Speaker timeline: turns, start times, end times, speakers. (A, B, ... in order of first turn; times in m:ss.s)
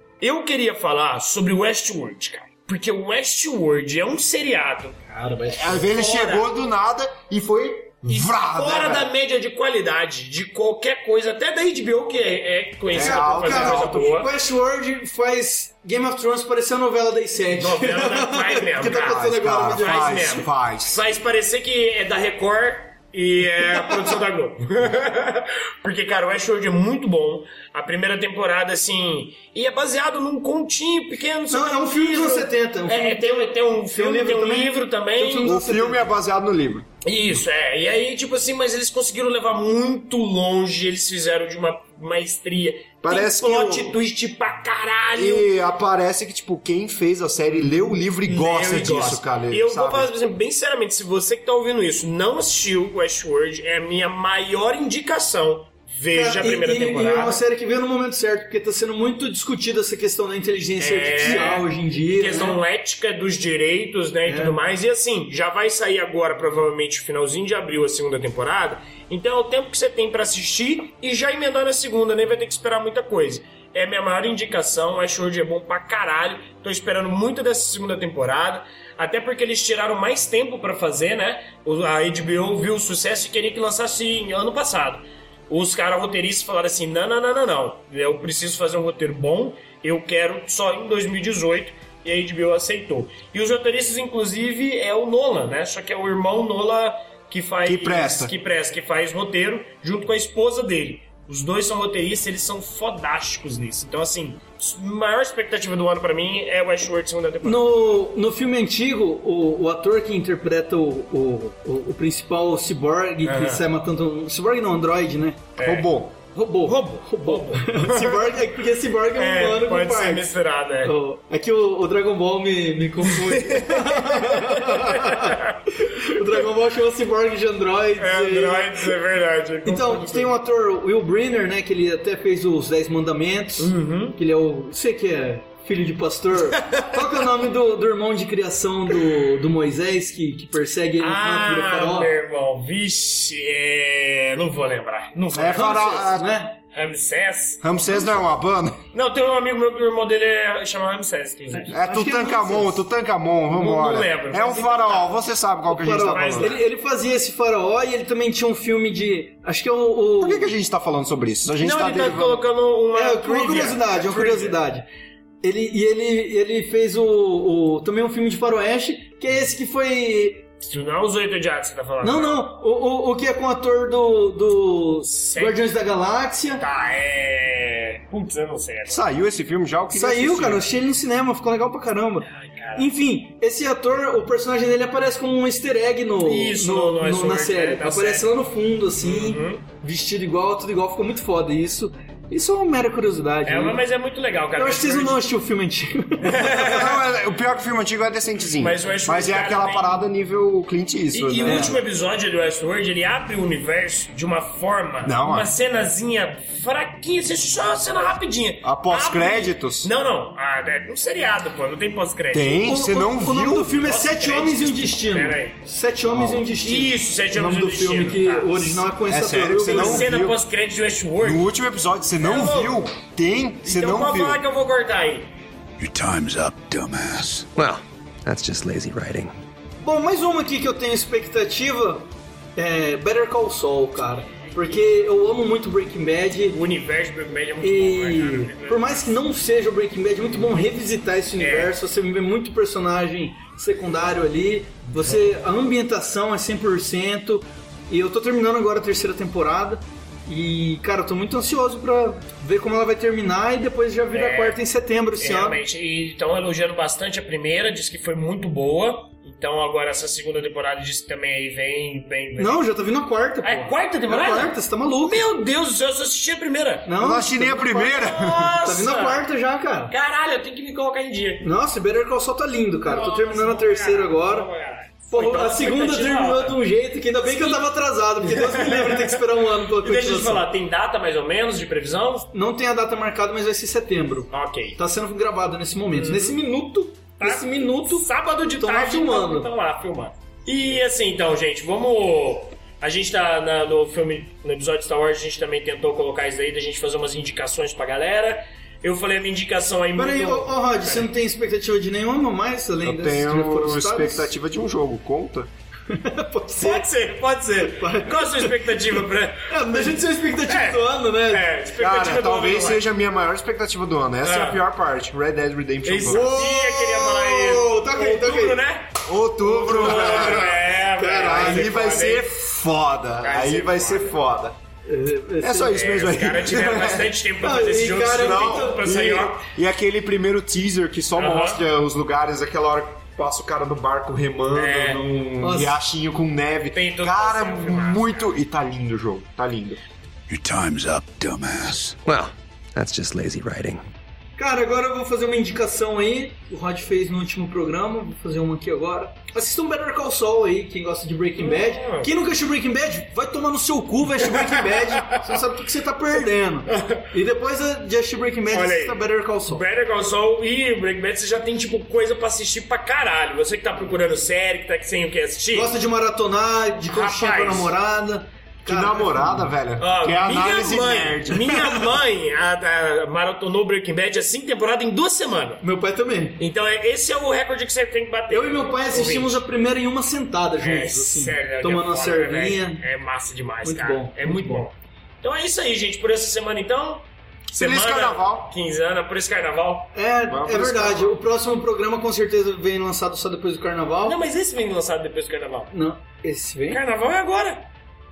0:00.2-0:06.5 A
0:05.5-0:09.1 B
0:08.2-0:14.3 A
0:12.9-0:14.2 B
0:12.9-0:20.3 C
0:17.5-0:35.6 A
0:18.8-0:21.0 B
0:31.5-0:36.1 C
0:35.4-0:36.9 B
0:37.0-0:45.5 A
0:43.0-0:44.0 B
0:45.2-0:50.1 B
0:47.5-0:57.4 A
0:56.1-1:02.6 C
1:00.8-1:47.7 A
1:04.3-1:04.6 C
1:37.6-1:38.3 B
1:47.4-1:55.5 C
1:53.2-1:53.6 A
1:55.6-1:55.9 A
1:55.6-1:56.2 B
1:56.4-2:00.3 C
1:56.6-1:58.4 A
1:59.2-2:01.0 A
2:00.8-2:08.9 C
2:03.0-2:05.7 A
2:08.0-2:10.3 A
2:09.6-2:22.1 C
2:13.6-2:14.2 A
2:16.5-2:17.2 A
2:21.0-2:25.8 A
2:25.3-2:26.4 B
2:25.5-2:26.6 C
2:26.7-2:28.3 A
2:27.6-2:28.8 B
2:28.9-2:31.8 A
2:31.5-2:32.8 C
2:31.7-2:36.6 B
2:33.5-2:35.1 A
2:35.7-2:40.5 C
2:36.0-2:36.6 A
2:40.2-2:42.4 B
2:41.6-2:44.6 A
2:42.9-2:44.9 C
2:45.4-2:50.5 C
2:50.6-2:52.5 A
2:52.0-2:56.6 C
2:55.0-2:55.6 A
2:56.6-2:59.0 A
2:58.9-3:00.7 B
2:59.9-3:13.8 C
3:02.3-3:02.9 A
3:06.2-3:08.3 A
3:09.0-3:09.6 A
3:13.4-3:15.2 A
3:14.6-3:16.9 C
3:16.2-3:16.9 A
3:16.6-3:21.8 B
3:18.6-3:20.0 A
3:21.1-3:32.7 A
3:21.4-3:21.8 C
3:25.0-3:25.5 B
3:28.6-3:29.9 B
3:32.3-3:33.8 B
3:32.6-3:40.1 C
3:33.8-3:35.6 A
3:36.1-3:36.5 B
3:36.6-3:38.9 A
3:39.1-3:40.4 B
3:39.6-3:41.5 A
3:41.2-3:44.4 B
3:42.2-3:42.8 A
3:43.6-3:45.3 A
3:45.8-3:47.5 D
3:47.6-3:49.3 E
3:49.8-3:56.6 C
3:56.5-3:59.0 A
3:57.6-4:15.6 C
4:00.3-4:00.6 A
4:01.4-4:01.7 A
4:05.0-4:05.2 A
4:14.1-4:14.6 A
4:15.2-4:22.7 A
4:22.4-4:25.3 C
4:23.4-4:26.9 A
4:26.9-4:29.9 C
4:27.0-4:28.6 B
4:27.8-4:29.2 A
4:29.9-4:31.5 A
4:31.4-4:34.5 C
4:32.8-4:36.6 A
4:35.1-4:40.5 C
4:37.2-4:37.6 A
4:38.2-4:42.3 A
4:42.3-4:49.5 C
4:44.3-4:44.8 A
4:45.9-4:46.4 A
4:47.2-5:01.1 A
5:00.0-5:04.3 C
5:02.8-5:05.5 B
5:05.9-5:06.9 C
5:06.6-5:12.8 A
5:07.6-5:09.0 C
5:09.5-5:11.5 C
5:11.8-5:16.4 B
5:14.2-5:14.6 A
5:15.8-5:18.9 A
5:16.1-5:18.6 C
5:19.1-5:20.6 B
5:19.4-5:21.7 C
5:19.6-5:22.3 A
5:21.1-5:24.6 B
5:23.2-5:24.2 A
5:24.8-5:25.8 C
5:25.4-5:27.2 B
5:25.7-5:29.5 A
5:27.4-5:28.8 C
5:28.0-5:39.8 B
5:31.2-5:31.6 A
5:34.5-5:35.2 A
5:35.4-5:35.8 C
5:36.7-5:38.3 A
5:40.3-5:42.0 D
5:42.1-5:43.8 E
5:44.4-5:59.6 C
5:51.4-5:52.1 A
5:54.5-5:55.2 A
5:56.7-5:57.1 A
5:58.5-6:05.7 A
6:05.5-6:09.5 C
6:06.9-6:07.7 A
6:08.7-6:11.8 B
6:09.8-6:15.6 A
6:15.6-6:16.4 C
6:16.4-6:19.4 A
6:18.3-6:22.8 C
6:20.6-6:29.9 A
6:23.6-6:24.7 C
6:27.5-6:28.5 B
6:30.0-6:34.2 C
6:30.3-6:31.1 B
6:34.0-6:35.7 A
6:35.7-6:36.8 C
6:36.7-6:37.6 A